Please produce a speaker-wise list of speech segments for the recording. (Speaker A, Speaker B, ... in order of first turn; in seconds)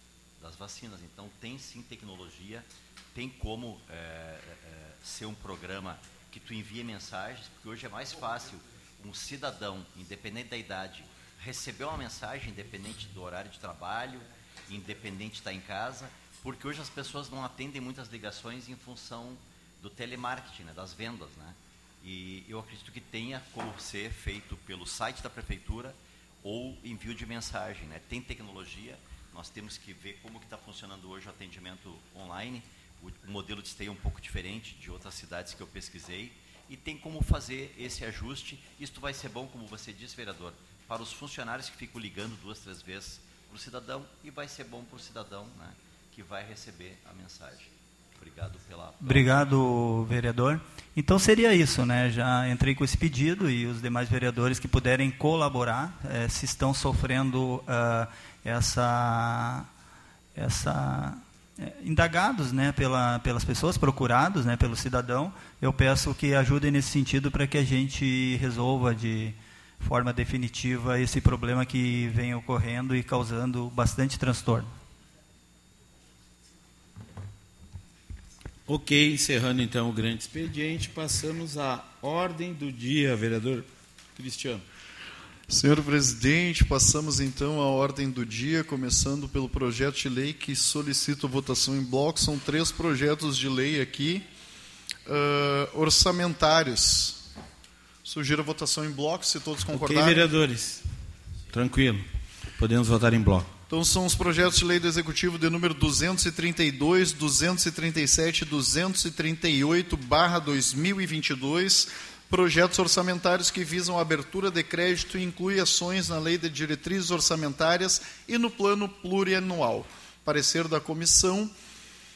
Speaker A: 0.4-49.4
Speaker B: 49.0-59.7, 60.4-74.7
Speaker C: 78.7-84.7, 99.7-100.8, 101.5-102.0, 102.6-103.5
Speaker D: 85.5-94.3, 95.1-97.2, 98.0-100.3, 103.7-121.5